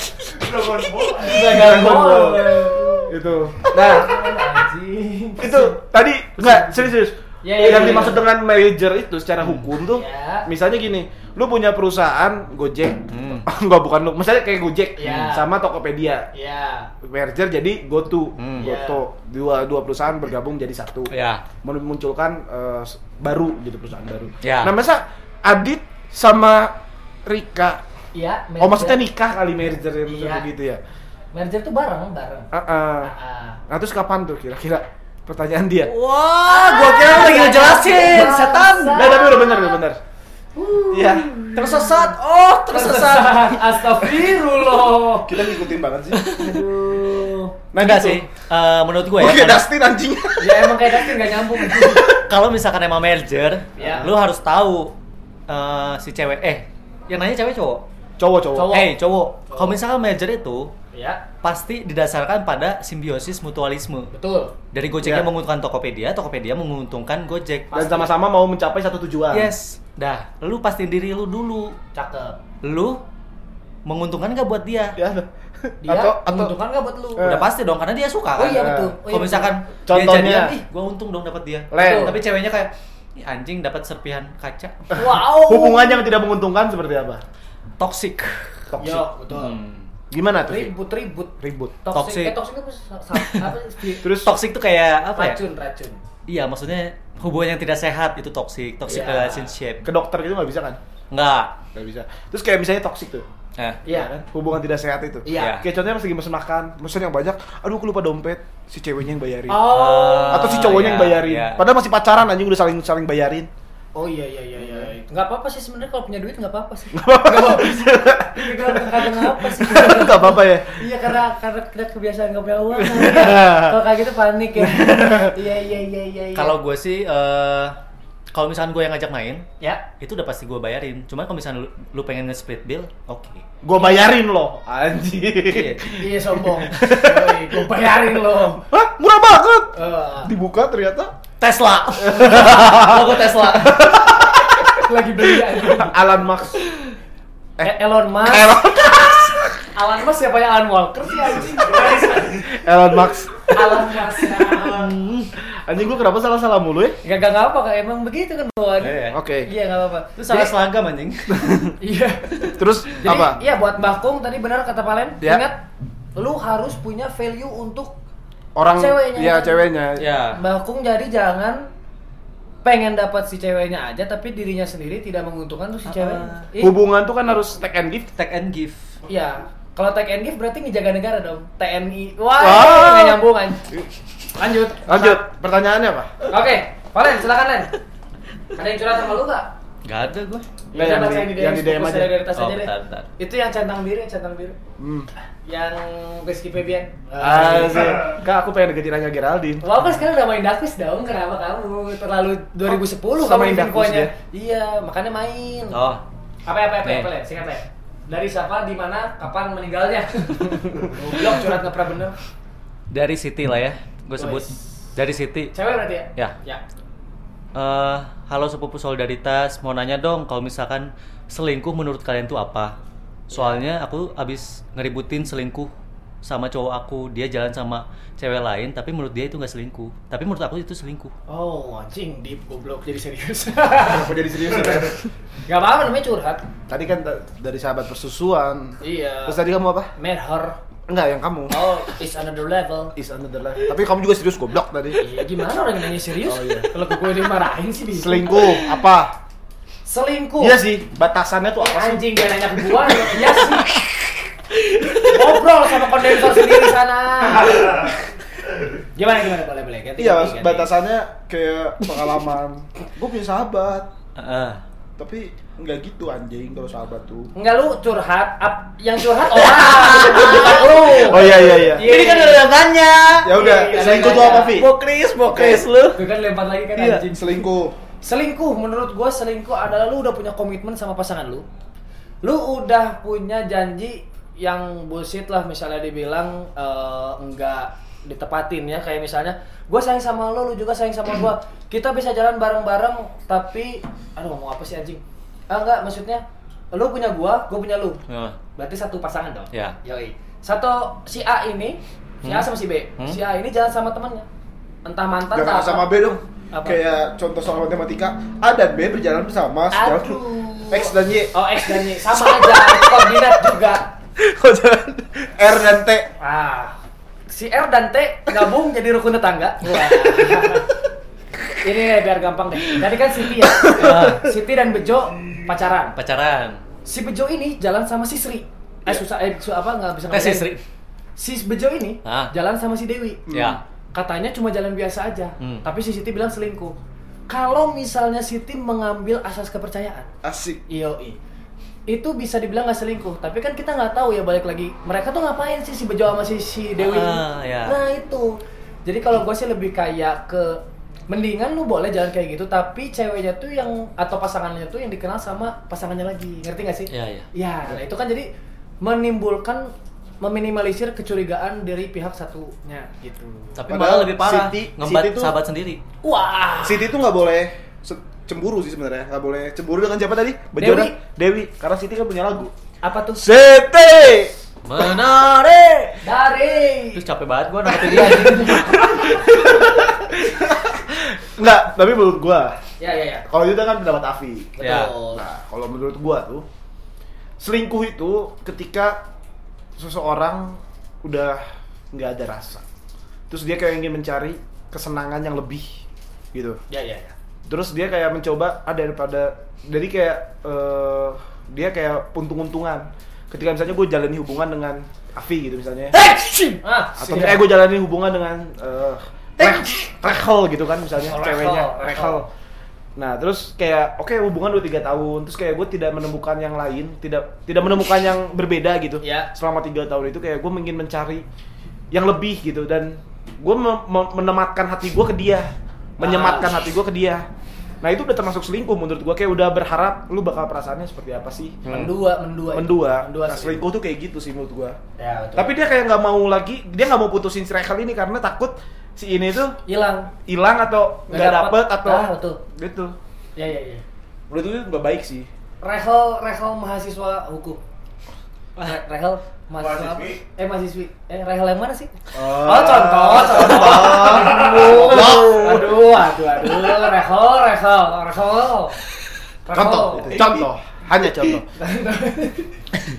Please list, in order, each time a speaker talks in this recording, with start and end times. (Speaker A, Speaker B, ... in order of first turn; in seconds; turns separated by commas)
Speaker A: 0.4-4.3, Speaker B: 0.5-5.8, Speaker A: 5.4-16.3, Speaker B: 6.4-6.9, Speaker B: 7.4-8.2, Speaker C: 9.4-9.7, Speaker B: 9.9-10.5, Speaker C: 13.1-13.4, Speaker B: 15.0-15.5, Speaker C: 15.0-15.3, Speaker B: 16.3-16.9, Speaker A: 17.0-27.8, Speaker C: 18.4-18.7, Speaker B: 18.6-19.0, Speaker C: 21.1-21.4, Speaker C: 24.4-24.7, Speaker B: 28.1-29.0, Speaker A: 28.6-30.8, Speaker B: 30.1-30.5, Speaker B: 31.3-32.5, Speaker A: 32.5-33.1, Speaker B: 33.0-33.6, Speaker A: 33.7-35.9, Speaker C: 35.8-39.1, Speaker B: 36.4-39.8, Speaker A: 38.9-40.0, Speaker B: 40.5-42.1, Speaker A: 40.9-41.3, Speaker C: 41.5-43.9, Speaker B: 42.7-45.3, Speaker A: 45.2-46.2, Speaker C: 46.1-46.6, Speaker B: 46.3-47.5, Speaker A: 47.7-48.2, Speaker C: 47.8-49.7, Speaker A: 49.2-52.2, Speaker B: 50.4-52.1, Speaker C: 52.1-54.9, Speaker B: 53.8-54.1, Speaker C: 55.5-57.8, Speaker A: 58.2-58.8, Speaker B: 58.5-58.9, Speaker C: 58.6-60.7, Speaker B: 59.5-59.8, Speaker B: 60.9-61.2, Speaker C: 61.4-64.1, Speaker B: 64.1-64.5, Speaker C: 64.7-68.1, Speaker A: 65.0-65.3, Speaker A: 67.7-69.5, Speaker C: 69.3-71.8, Speaker B: 71.9-72.4, Speaker C: 72.6-73.0, Speaker C: 73.8-75.0, Speaker A: 75.0-76.5, Speaker B: 75.8-77.3, Speaker A: 77.1-77.5, Speaker C: 77.2-84.8, Speaker B: 78.3-79.5, Speaker A: 78.5-78.9, Speaker A: 79.9-80.5, Speaker A: 81.7-82.2, Speaker B: 81.8-82.2, Speaker A: 84.9-87.2, Speaker B: 84.9-86.1, Speaker C: 87.8-88.6, Speaker A: 88.7-89.1, Speaker B: 88.8-89.6, Speaker C: 89.3-89.9, Speaker A: 90.1-90.7, Speaker B: 90.4-94.1, Speaker A: 91.4-91.7, Speaker C: 91.9-92.3, Speaker C: 93.1-93.5, Speaker A: 94.0-94.3, Speaker C: 94.1-95.4, Speaker B: 95.1-96.0, Speaker C: 96.3-99.8, Speaker B: 98.8-99.5, Speaker A: 99.8-100.8, Speaker C: 101.1-101.6, Speaker A: 101.7-103.2, Speaker B: 103.8-104.1, Speaker A: 103.9-109.7, Speaker B: 105.2-105.6, Speaker C: 105.3-105.6, Speaker B: 109.5-110.8, Speaker C: 109.6-111.6, Speaker A: 110.3-113.5, Speaker B: 113.9-126.6, Speaker A: 114.6-114.9, Speaker A: 116.9-120.9, Speaker A: 122.8-123.8, Speaker A: 124.6-125.3, Speaker C: 126.3-127.8, Speaker C: 128.3-129.4, Speaker B: 129.6-129.9, Speaker C: 130.0-133.4, Speaker A: 133.6-137.5, Speaker B: 133.8-134.1, Speaker C: 135.5-135.8, Speaker B: 135.9-138.6, Speaker A: 138.7-141.1, Speaker B: 139.7-140.3, Speaker C: 141.4-144.1, Speaker A: 142.0-146.6, Speaker B: 144.7-146.1, Speaker A: 147.6-149.6, Speaker B: 147.6-152.5, Speaker A: 152.3-154.2, Speaker B: 153.5-154.9, Speaker C: 154.6-155.3, Speaker A: 155.7-157.0, Speaker B: 157.0-160.6, Speaker C: 158.8-159.2, Speaker A: 159.1-159.5, Speaker C: 160.2-161.6, Speaker A: 161.3-161.7, Speaker B: 161.8-167.9, Speaker A: 162.5-163.4, Speaker A: 168.6-170.0, Speaker B: 168.7-169.7, Speaker C: 170.0-170.4, Speaker B: 170.3-171.7, Speaker B: 172.6-176.8, Speaker C: 175.8-176.5, Speaker A: 176.6-178.1, Speaker C: 178.2-179.0, Speaker B: 179.1-183.7, Speaker A: 182.4-183.2, Speaker B: 184.3-185.2, Speaker A: 184.8-186.2, Speaker B: 186.3-187.7, Speaker B: 188.5-189.5, Speaker C: 189.8-190.5, Speaker A: 190.7-192.2, Speaker B: 190.7-194.6, Speaker C: 192.3-193.1, Speaker A: 194.8-195.1, Speaker B: 195.4-198.1, Speaker A: 197.2-199.7, Speaker B: 199.6-205.8, Speaker A: 202.7-204.1, Speaker C: 205.7-206.0, Speaker B: 206.4-212.2, Speaker C: 206.8-207.1, Speaker A: 210.6-211.0, Speaker C: 212.9-215.5, Speaker B: 214.2-214.6, Speaker B: 215.5-216.6, Speaker C: 217.5-222.8, Speaker C: 223.3-225.7, Speaker B: 223.3-223.6, Speaker C: 226.2-231.1, Speaker B: 231.3-234.9, Speaker A: 233.8-235.1, Speaker B: 235.5-236.4, Speaker A: 236.7-239.9, Speaker B: 238.8-239.4, Speaker B: 239.9-240.6, Speaker A: 240.9-241.6, Speaker B: 241.5-242.9, Speaker A: 242.9-245.0, Speaker B: 245.0-248.7, Speaker A: 246.2-246.7, Speaker A: 247.9-249.1, Speaker B: 249.8-250.6, Speaker A: 250.4-252.1, Speaker B: 251.6-253.8, Speaker C: 254.7-255.1, Speaker B: 255.0-258.0, Speaker B: 258.9-260.7, Speaker A: 260.0-263.9, Speaker C: 264.1-264.6, Speaker A: 265.0-267.3, Speaker B: 267.3-272.5, Speaker C: 269.3-276.0, Speaker A: 270.9-271.9, Speaker A: 273.2-274.7, Speaker B: 273.3-274.6, Speaker A: 275.2-275.6, Speaker B: 275.9-277.4, Speaker C: 276.7-277.0, Speaker A: 277.1-277.8, Speaker B: 278.0-281.4, Speaker B: 282.2-298.0, Speaker C: 298.1-298.4, Speaker B: 298.6-304.2, Speaker C: 302.2-303.2, Speaker B: 304.8-305.9, Speaker A: 305.3-313.3, Speaker B: 306.5-306.8, Speaker B: 309.7-313.9, Speaker A: 314.2-316.1, Speaker B: 316.2-316.8, Speaker B: 317.3-320.7, Speaker A: 320.2-320.6, Speaker B: 321.6-325.9, Speaker A: 323.6-324.0, Speaker C: 323.7-324.3, Speaker C: 325.9-326.6, Speaker B: 326.8-330.5, Speaker C: 330.1-330.6, Speaker B: 331.2-333.3, Speaker C: 332.0-332.3, Speaker A: 333.3-333.6, Speaker C: 333.3-333.6, Speaker B: 333.9-336.7, Speaker B: 337.3-340.1, Speaker A: 340.2-340.6, Speaker B: 340.7-341.2, Speaker B: 341.9-358.3, Speaker C: 346.8-347.8, Speaker C: 356.9-357.3, Speaker B: 358.8-363.6, Speaker C: 363.6-365.8, Speaker A: 363.7-365.3, Speaker B: 366.0-366.9, Speaker A: 366.6-372.5, Speaker B: 370.6-370.9, Speaker B: 372.8-373.3, Speaker A: 373.2-374.3, Speaker C: 374.6-376.0, Speaker B: 376.0-377.0, Speaker C: 376.9-378.6, Speaker B: 377.7-379.2, Speaker A: 378.7-382.6, Speaker B: 382.8-383.2, Speaker A: 383.3-384.6, Speaker B: 384.6-385.2, Speaker C: 384.6-384.9, Speaker A: 385.1-386.4, Speaker A: 387.4-389.0, Speaker A: 389.8-392.6, Speaker A: 393.3-395.8, Speaker A: 396.3-396.6, Speaker B: 396.7-397.1, Speaker A: 397.5-406.0, Speaker B: 405.9-407.5, Speaker A: 407.0-412.3, Speaker B: 411.1-412.2, Speaker A: 412.9-421.2, Speaker B: 419.0-419.3, Speaker A: 421.9-427.2, Speaker B: 426.0-426.5, Speaker A: 427.8-431.8, Speaker B: 431.7-433.6, Speaker A: 432.5-434.8, Speaker B: 435.0-435.5, Speaker A: 435.4-439.6, Speaker B: 439.6-440.1, Speaker A: 440.2-442.9, Speaker B: 441.1-442.4, Speaker B: 443.4-443.8, Speaker A: 444.3-445.3, Speaker B: 445.6-447.6, Speaker B: 448.6-458.8, Speaker A: 452.1-455.8, Speaker C: 455.0-455.2, Speaker B: 459.4-460.4, Speaker A: 459.5-461.4, Speaker B: 461.5-462.5